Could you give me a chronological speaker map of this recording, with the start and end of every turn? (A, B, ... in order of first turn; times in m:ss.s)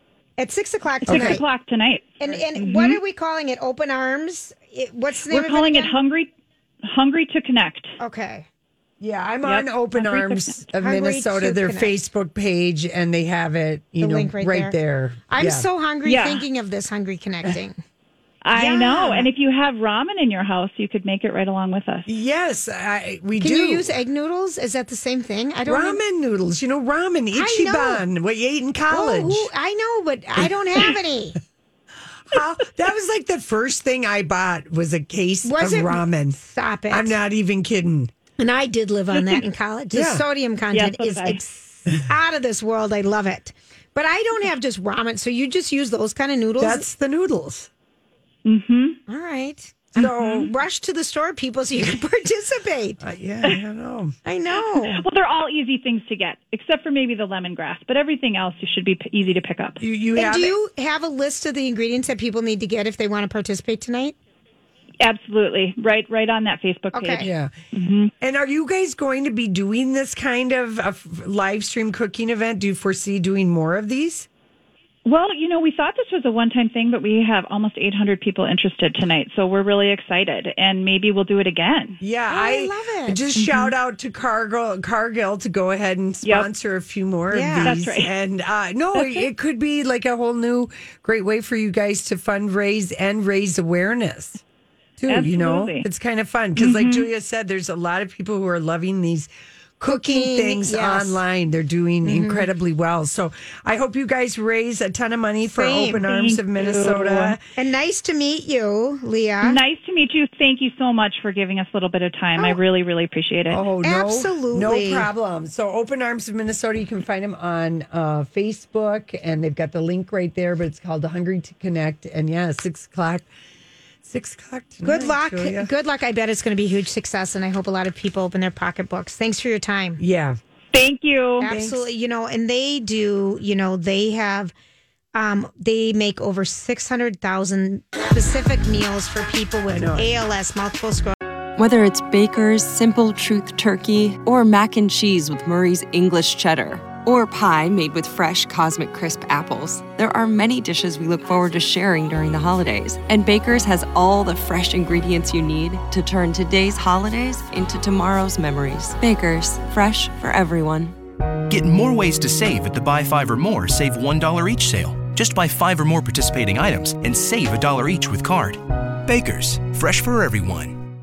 0:00.4-0:01.4 A
0:01.1-0:03.0 B
0:01.1-0:01.4 C
0:02.2-0:06.0 A
0:05.3-0:06.3 B
0:06.9-0:07.9 B
0:08.0-0:08.5 A
0:09.0-0:15.7 C
0:09.4-0:10.6 B
0:10.8-0:12.0 A
0:14.0-0:14.8 A
0:15.3-0:17.8 A
0:16.0-0:16.4 B
0:18.4-0:22.1 B
0:18.5-0:19.3 A
0:22.1-0:23.9 C
0:23.4-0:26.0 A
0:25.7-0:29.5 C
0:27.3-0:28.0 A
0:28.9-0:31.4 A
0:30.4-0:30.8 C
0:32.3-0:38.1 C
0:35.4-0:37.2 A
0:38.4-0:46.9 A
0:39.9-0:40.2 C
0:40.7-0:41.4 B
0:46.6-0:47.7 C
0:48.4-0:49.0 B
0:49.1-0:53.0 A
0:49.9-0:50.5 C
0:53.0-0:54.2 C
0:54.2-0:55.0 A
0:54.6-0:59.8 B
0:59.8-1:00.6 C
1:00.2-1:04.2 A
1:05.0-1:08.1 B
1:06.9-1:07.3 A
1:07.2-1:07.5 C
1:08.2-1:14.3 C
1:15.0-1:22.0 B
1:22.0-1:34.4 C
1:22.3-1:23.2 A
1:23.4-1:23.7 B
1:27.3-1:27.8 A
1:27.6-1:28.1 B
1:29.0-1:29.3 B
1:35.0-1:47.4 C
1:35.1-1:35.8 B
1:36.6-1:37.1 B
1:39.9-1:41.2 A
1:42.0-1:42.5 A
1:45.5-1:46.1 A
1:46.1-1:47.4 B
1:47.6-1:49.6 A
1:49.4-1:53.6 B
1:53.5-2:03.3 C
1:53.8-1:55.1 A
2:04.0-2:05.7 C
2:04.8-2:10.0 A
2:10.0-2:10.4 C
2:10.7-2:11.5 B
2:11.4-2:14.5 A
2:11.4-2:11.9 C
2:15.1-2:21.2 A
2:19.7-2:20.1 C
2:21.6-2:41.0 D
2:41.5-2:50.8 E